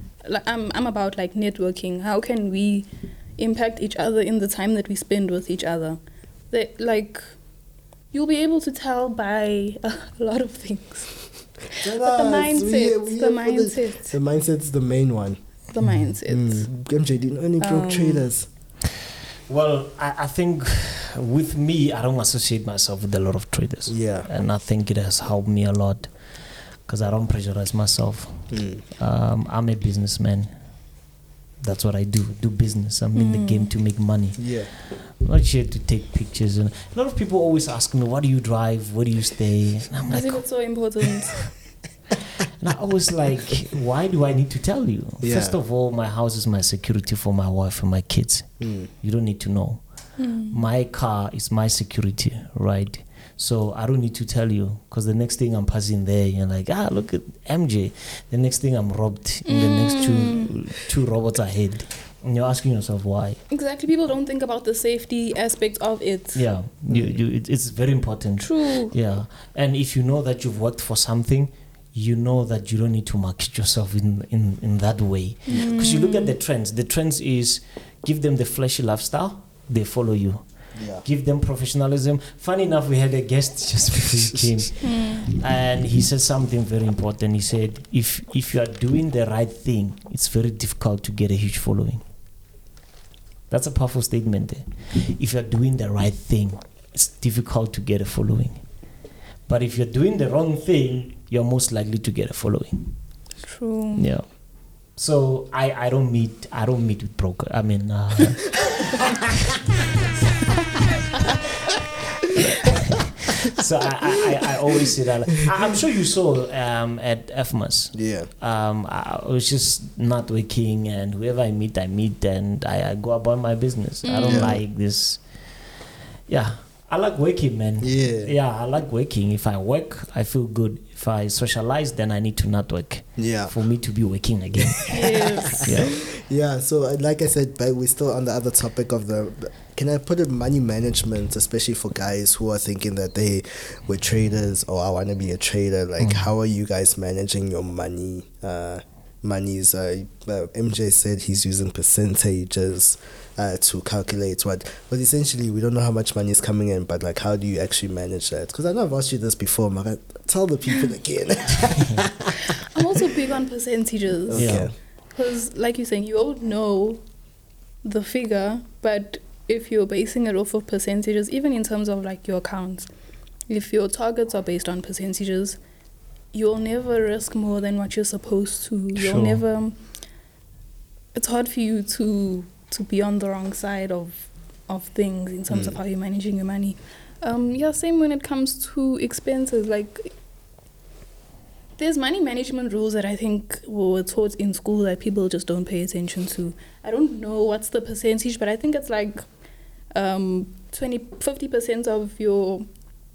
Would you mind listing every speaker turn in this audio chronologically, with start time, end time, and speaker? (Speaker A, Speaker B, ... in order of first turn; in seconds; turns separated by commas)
Speaker A: 0.2-6.0, Speaker A: 6.5-7.3, Speaker A: 8.1-14.2, Speaker B: 11.8-15.4, Speaker A: 15.7-16.7, Speaker C: 15.8-16.1, Speaker B: 16.3-18.5, Speaker A: 17.6-18.3, Speaker C: 19.5-26.3, Speaker B: 23.9-24.3, Speaker C: 26.8-30.5, Speaker B: 28.5-28.8, Speaker C: 31.6-40.4, Speaker A: 33.1-33.7, Speaker B: 34.4-34.7, Speaker A: 40.1-41.4, Speaker C: 42.6-63.4, Speaker B: 45.2-45.6, Speaker B: 48.6-48.9, Speaker A: 50.2-50.6, Speaker A: 59.5-60.5, Speaker A: 63.5-66.5, Speaker C: 66.3-92.0, Speaker B: 66.9-67.2, Speaker A: 68.4-68.9, Speaker A: 75.5-76.3, Speaker B: 80.7-81.0, Speaker A: 84.8-85.2, Speaker C: 93.5-98.6, Speaker C: 99.5-103.0, Speaker A: 103.4-104.1, Speaker C: 104.0-109.5, Speaker C: 112.5-125.2, Speaker B: 117.9-118.3, Speaker A: 124.0-124.5, Speaker B: 124.2-124.6, Speaker C: 126.3-136.0, Speaker B: 127.8-128.3, Speaker B: 133.2-133.5, Speaker B: 134.6-162.9, Speaker A: 134.9-135.7, Speaker C: 146.0-146.3, Speaker A: 162.7-167.0, Speaker B: 164.3-164.7, Speaker C: 164.3-164.7, Speaker A: 167.8-172.9, Speaker A: 173.5-175.6, Speaker A: 176.3-179.8, Speaker C: 178.9-179.4, Speaker A: 181.1-190.1, Speaker B: 185.5-185.8, Speaker A: 191.8-199.3, Speaker A: 199.9-202.7